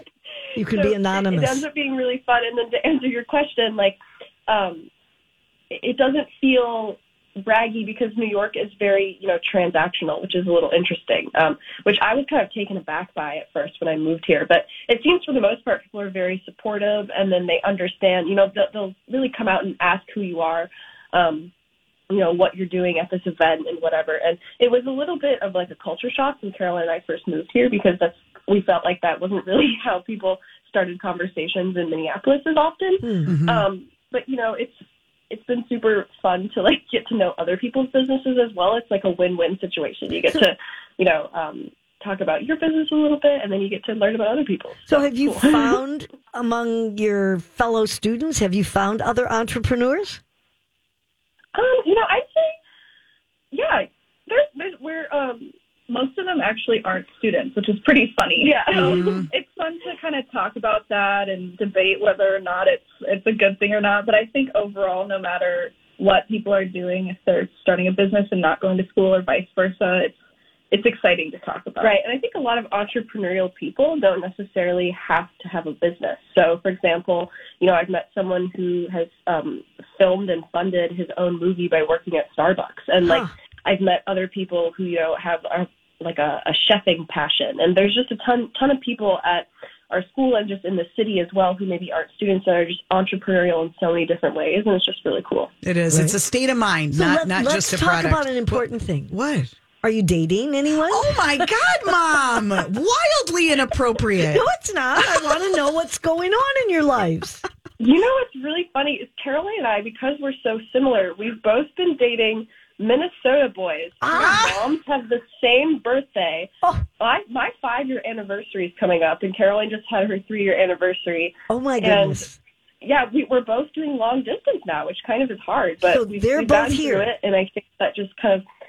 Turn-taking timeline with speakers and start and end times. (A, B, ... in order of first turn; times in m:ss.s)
0:00.5-0:01.6 A
0:00.6-0:04.9 B
0:05.7-0:21.5 B
0:22.1-0:45.8 B
0:33.0-0:33.3 A
0:33.2-0:33.6 C
0:44.9-0:50.2 A
0:51.5-0:52.6 B
0:53.5-0:55.5 B
0:55.9-1:10.2 D
0:58.4-0:59.2 B
0:58.8-0:59.3 C
1:10.7-1:11.9 D
1:11.8-1:35.5 B
1:23.0-1:23.3 A
1:35.6-1:39.5 C
1:35.9-1:36.2 A
1:36.9-1:39.1 A
1:39.8-1:41.5 A
1:40.9-1:44.4 C
1:44.2-1:47.4 A
1:47.8-2:02.2 B
1:54.0-1:54.5 A
1:54.1-1:54.6 C
2:01.5-2:02.4 A
2:02.8-2:08.4 B
2:05.8-2:07.1 A